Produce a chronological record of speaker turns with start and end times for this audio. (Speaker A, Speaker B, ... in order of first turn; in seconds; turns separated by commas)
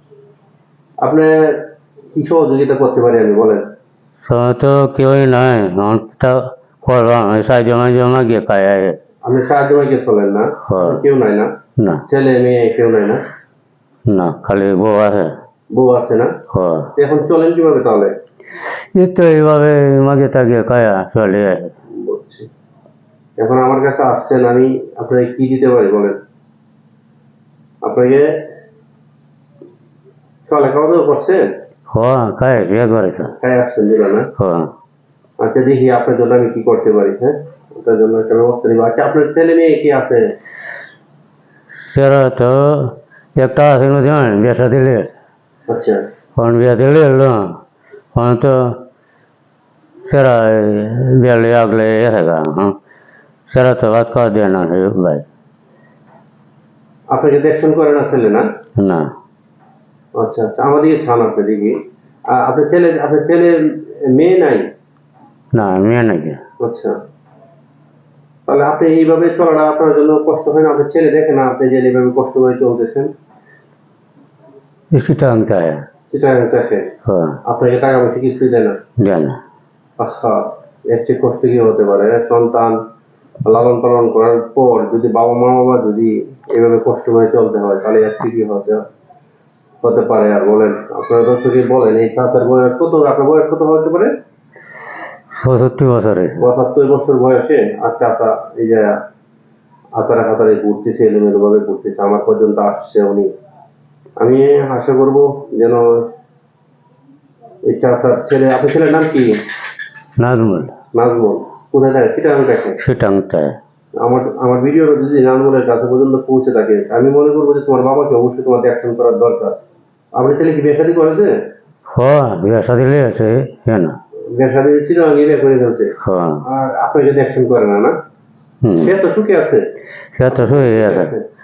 Speaker A: 1.0-1.6, Speaker A: 2.1-3.6, Speaker B: 4.2-9.0, Speaker A: 9.2-11.5, Speaker B: 10.7-11.0, Speaker B: 11.8-12.0, Speaker A: 12.1-13.2, Speaker B: 14.1-15.3, Speaker A: 15.7-16.3, Speaker B: 16.5-16.9, Speaker A: 16.9-18.1, Speaker B: 18.9-21.7, Speaker A: 22.0-22.5, Speaker A: 23.4-26.1, Speaker A: 27.8-28.3, Speaker A: 30.4-31.4, Speaker B: 31.9-33.3, Speaker A: 33.3-34.3, Speaker B: 34.4-34.7, Speaker A: 35.4-40.3, Speaker B: 41.8-45.1, Speaker A: 45.7-46.0, Speaker B: 46.4-47.6, Speaker B: 48.1-48.8, Speaker B: 50.0-52.7, Speaker B: 53.5-55.2, Speaker A: 57.1-58.4, Speaker B: 58.8-59.1, Speaker A: 60.2-61.8, Speaker A: 62.3-64.6, Speaker B: 65.5-66.4, Speaker A: 66.6-66.9, Speaker A: 68.5-73.1, Speaker B: 74.9-75.8, Speaker A: 76.1-76.9, Speaker B: 77.1-77.4, Speaker A: 77.5-78.8, Speaker B: 79.0-79.4, Speaker A: 80.0-82.8, Speaker A: 83.4-88.8, Speaker A: 89.8-94.1, Speaker B: 95.3-96.4, Speaker A: 96.4-99.0, Speaker A: 100.0-103.3, Speaker A: 104.2-105.8, Speaker A: 107.6-109.3, Speaker B: 110.2-110.7, Speaker A: 111.0-112.8, Speaker B: 112.8-113.6, Speaker A: 114.0-119.6, Speaker A: 120.2-121.3, Speaker B: 121.9-124.0, Speaker A: 124.3-125.9, Speaker B: 126.0-126.4, Speaker A: 126.4-127.9, Speaker B: 128.6-128.9, Speaker A: 128.8-129.6, Speaker B: 130.1-131.1, Speaker A: 130.3-131.2